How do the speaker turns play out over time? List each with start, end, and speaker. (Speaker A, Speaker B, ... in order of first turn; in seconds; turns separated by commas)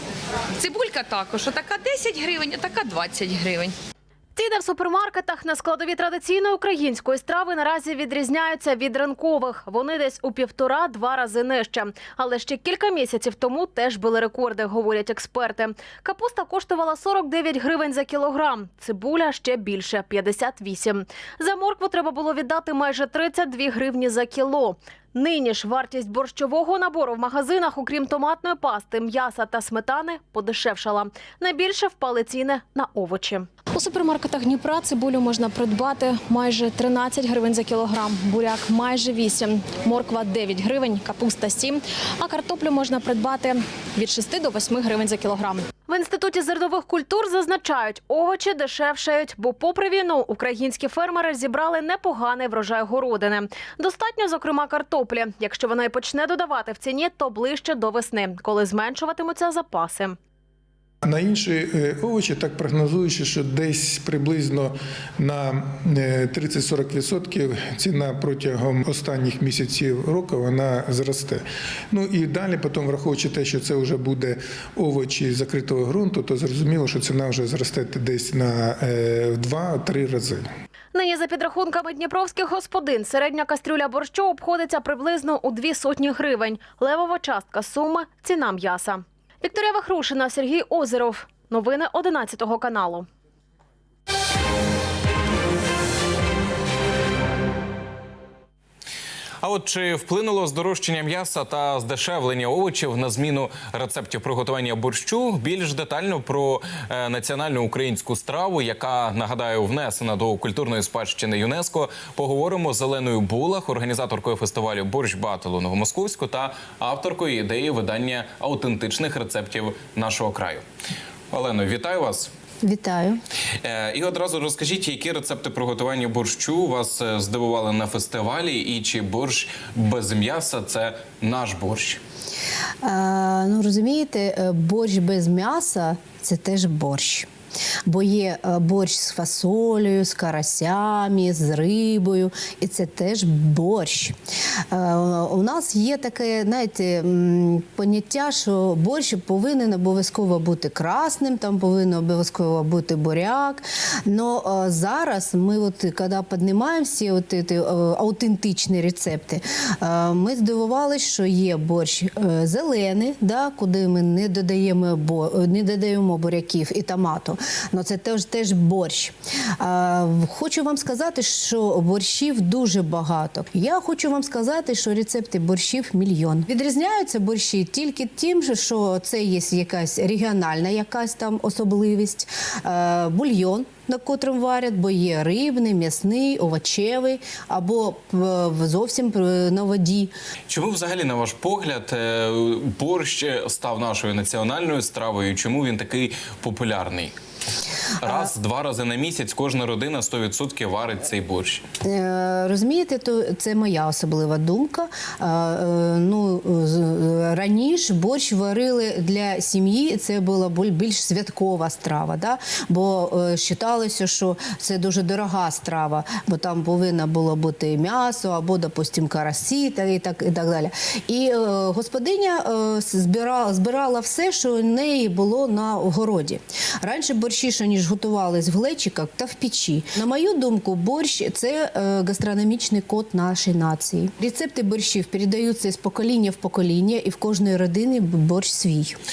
Speaker A: 0.6-3.7, Speaker B: 4.4-60.2, Speaker C: 61.0-80.5, Speaker B: 80.9-93.1, Speaker D: 99.4-120.7, Speaker D: 121.3-122.3, Speaker E: 122.6-123.2, Speaker D: 123.6-132.0, Speaker E: 132.8-137.3, Speaker E: 137.9-144.2, Speaker E: 144.7-190.1, Speaker D: 190.5-197.2, Speaker D: 198.0-201.6, Speaker E: 201.8-239.0